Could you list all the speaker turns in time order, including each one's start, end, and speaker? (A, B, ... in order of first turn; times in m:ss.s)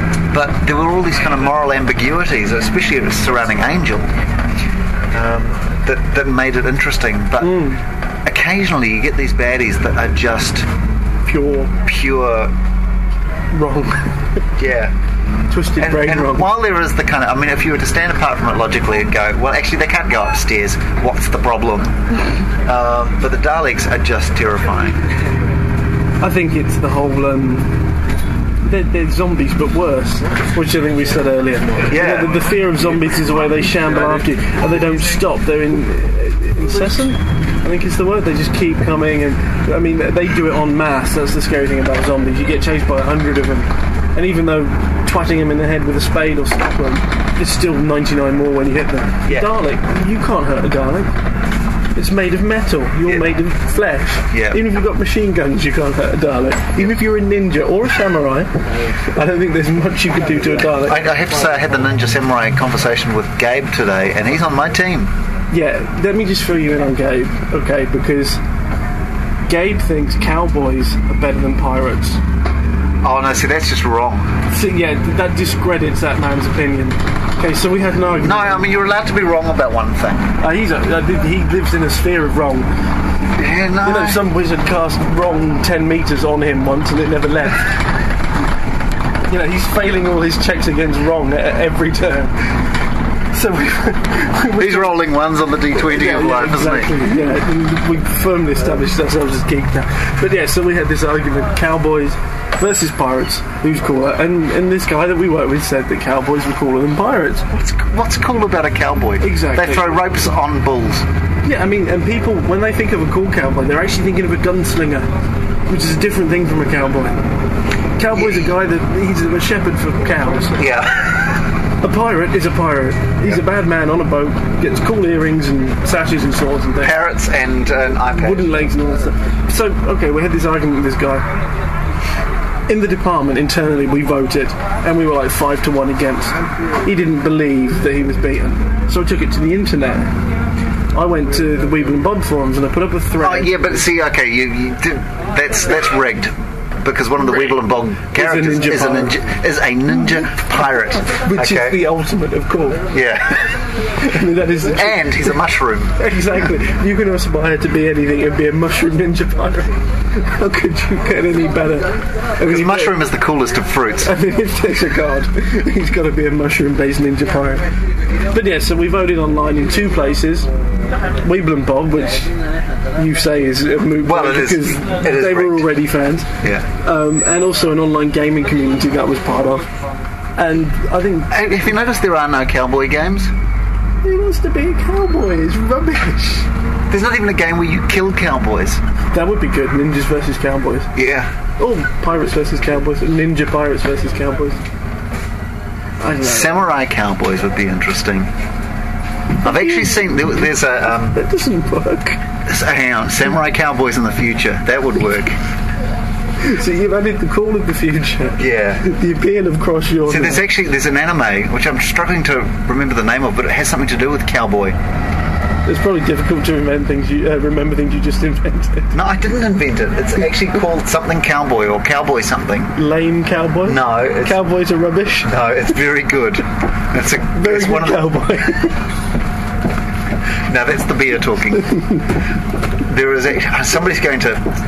0:00.3-0:04.1 A
0:05.1-0:07.7 A
0:07.4-0:07.8 B
0:08.3-0:10.7 A
0:11.2-0:11.7 B
0:11.8-0:12.5 A
0:13.5-0:14.2 B
0:14.6-0:14.9 A
0:15.5-0:16.5 B
0:15.8-0:22.0 A
0:22.6-0:25.0 A
0:26.2-0:27.7 B
0:28.6-0:51.1 B
0:31.9-0:32.4 A
0:49.3-0:49.5 A
0:52.0-0:58.5 B
0:54.3-0:54.6 A
0:59.1-1:01.0 B
1:00.9-1:05.1 A
1:05.5-1:08.4 B
1:09.5-1:12.2 B
1:13.0-1:14.3 A
1:14.5-1:18.7 B
1:18.2-1:20.3 A
1:20.4-1:22.7 B
1:23.2-1:24.3 A
1:23.8-1:27.8 B
1:29.3-1:32.3 B
1:33.3-1:35.0 B
1:34.6-1:37.0 A
1:35.8-1:47.5 B
1:47.5-1:51.0 A
1:49.2-1:49.9 B
1:51.4-1:55.1 B
1:55.7-1:57.2 B
1:58.0-2:00.6 B
1:58.1-1:58.5 A
2:00.6-2:01.4 A
2:01.8-2:07.0 B
2:06.8-2:08.5 A
2:08.1-2:11.2 B
2:12.7-2:20.1 B
2:20.9-2:23.5 B
2:23.2-2:31.8 A
2:28.2-2:29.2 B
2:31.2-2:32.8 B
2:32.9-2:33.4 A
2:34.0-2:35.4 B
2:34.7-2:36.0 A
2:36.0-2:43.0 B
2:42.4-2:44.1 A
2:44.0-2:47.6 B
2:48.3-2:50.5 B
2:51.2-2:52.4 B
2:52.9-2:56.3 B
2:54.0-2:55.7 A
2:56.8-2:59.7 B
3:00.4-3:01.3 B
3:01.3-3:03.3 A
3:04.0-3:06.5 B
3:06.9-3:08.8 A
3:09.1-3:10.9 B
3:11.0-3:11.3 A
3:11.6-3:14.6 B
3:16.0-3:16.6 B
3:16.2-3:18.3 A
3:19.4-3:21.2 A
3:19.4-3:20.3 B
3:21.1-3:22.2 B
3:22.5-3:25.4 A
3:26.4-3:30.4 B
3:28.4-3:28.8 A
3:30.1-3:34.8 A
3:35.7-3:39.0 B
3:38.9-3:42.7 A
3:42.8-3:45.3 B
3:43.7-3:44.4 A
3:45.2-3:48.1 A
3:47.3-3:48.8 B
3:50.5-3:51.7 A
3:52.8-3:54.5 A